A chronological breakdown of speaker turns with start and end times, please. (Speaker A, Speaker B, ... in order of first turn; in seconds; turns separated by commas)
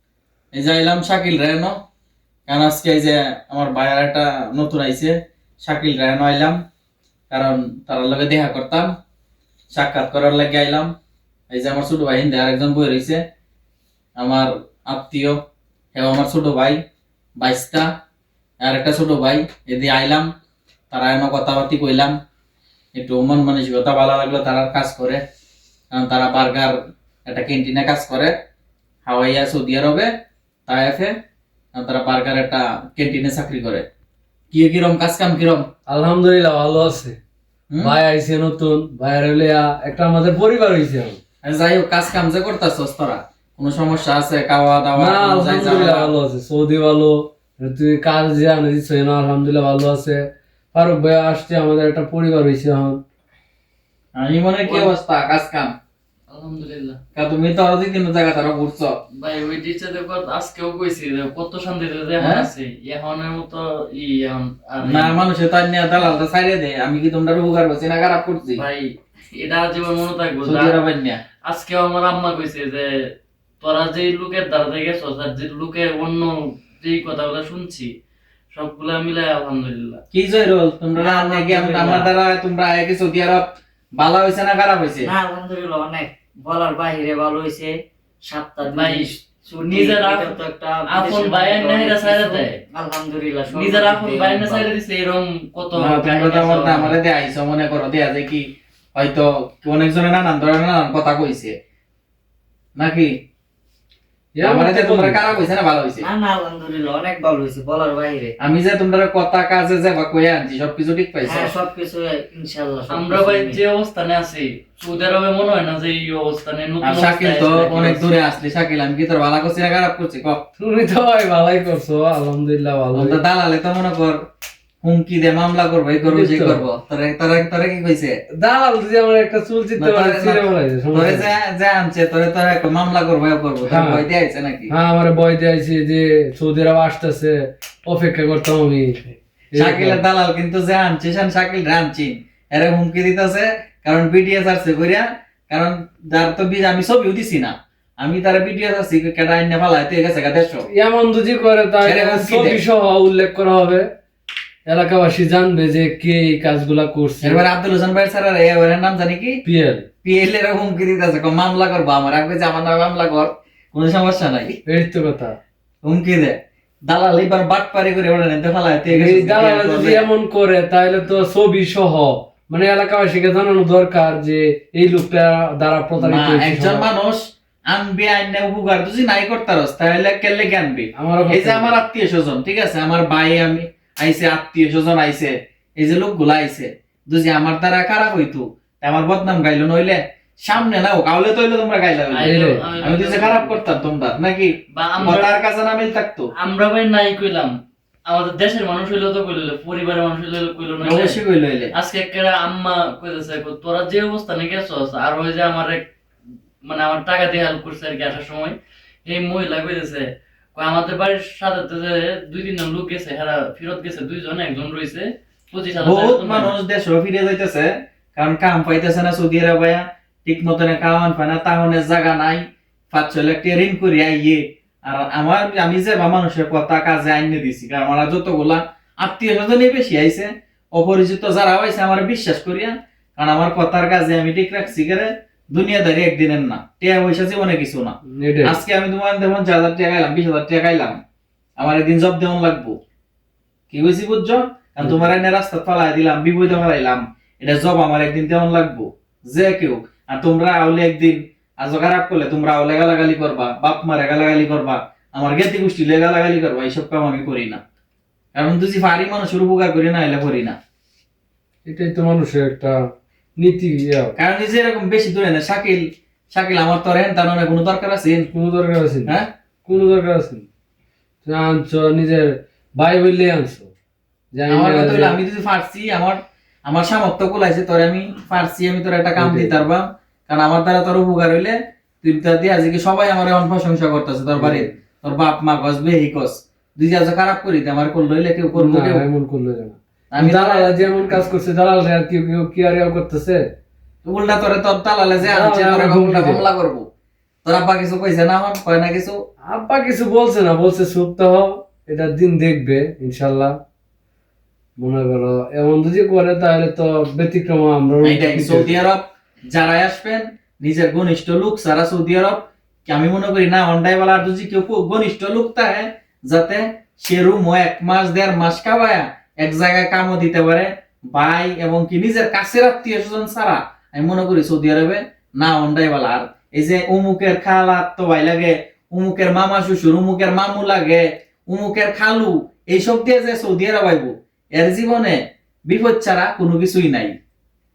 Speaker A: 0.5-1.8, Speaker A: 2.5-6.6, Speaker A: 7.3-8.9, Speaker A: 9.7-10.9, Speaker A: 11.5-13.2, Speaker A: 14.2-15.4, Speaker A: 15.9-16.8, Speaker A: 17.4-17.9, Speaker A: 18.6-20.3, Speaker A: 20.9-22.1, Speaker A: 22.9-25.2, Speaker A: 25.9-28.3, Speaker A: 29.1-30.1, Speaker A: 30.7-31.1, Speaker A: 31.7-33.9, Speaker A: 34.5-35.7, Speaker B: 35.9-37.1, Speaker A: 37.7-38.0, Speaker B: 37.8-41.2, Speaker A: 41.4-46.1, Speaker B: 45.0-53.0, Speaker A: 54.1-55.7, Speaker C: 54.6-54.9, Speaker C: 56.3-57.0, Speaker A: 57.1-59.0, Speaker C: 59.2-65.2, Speaker A: 62.2-62.5, Speaker A: 64.8-68.6, Speaker C: 68.6-70.8, Speaker A: 70.4-71.2, Speaker C: 71.5-77.9, Speaker C: 78.5-80.0, Speaker A: 80.1-85.1, Speaker D: 81.0-82.1, Speaker D: 85.0-94.7, Speaker C: 88.6-92.6, Speaker C: 93.5-97.0, Speaker A: 95.8-101.5, Speaker A: 102.8-103.1, Speaker B: 104.3-105.3, Speaker A: 104.4-106.1, Speaker D: 106.0-108.3, Speaker A: 108.4-111.5, Speaker D: 111.2-113.6, Speaker C: 112.9-118.1, Speaker A: 116.8-120.5, Speaker B: 120.6-123.2, Speaker A: 122.9-124.2, Speaker A: 124.8-128.2, Speaker B: 126.0-126.6, Speaker B: 128.4-131.3, Speaker A: 129.8-130.4, Speaker A: 130.9-134.7, Speaker B: 133.7-134.0, Speaker B: 134.7-140.0, Speaker A: 139.6-150.7, Speaker B: 150.7-153.8, Speaker A: 151.8-152.6, Speaker B: 154.7-157.4, Speaker A: 157.2-159.4, Speaker B: 159.4-159.8, Speaker A: 160.0-164.6, Speaker B: 164.7-165.3, Speaker A: 165.8-166.3, Speaker A: 166.9-170.0, Speaker B: 168.9-176.9, Speaker A: 176.0-196.3, Speaker B: 180.9-181.8, Speaker C: 192.1-193.6, Speaker B: 192.2-192.7, Speaker C: 194.7-195.4, Speaker C: 196.4-197.5, Speaker C: 198.1-201.2, Speaker A: 200.8-201.7, Speaker C: 201.7-205.8, Speaker C: 206.6-216.6, Speaker A: 215.8-241.0, Speaker B: 238.1-238.6, Speaker A: 241.6-242.8, Speaker A: 243.7-257.6, Speaker B: 244.8-245.1, Speaker A: 258.3-260.6, Speaker B: 261.6-262.8, Speaker B: 263.4-264.1, Speaker A: 264.2-268.3, Speaker B: 268.3-269.1, Speaker B: 269.6-270.5, Speaker B: 271.2-273.7, Speaker B: 274.3-275.1, Speaker A: 274.5-289.0, Speaker B: 279.1-279.6, Speaker B: 284.4-284.8, Speaker B: 288.5-293.4, Speaker A: 290.1-290.7, Speaker A: 294.0-296.8, Speaker B: 295.2-296.4, Speaker A: 297.4-299.1, Speaker B: 299.4-303.6, Speaker B: 304.8-308.8, Speaker A: 308.0-337.1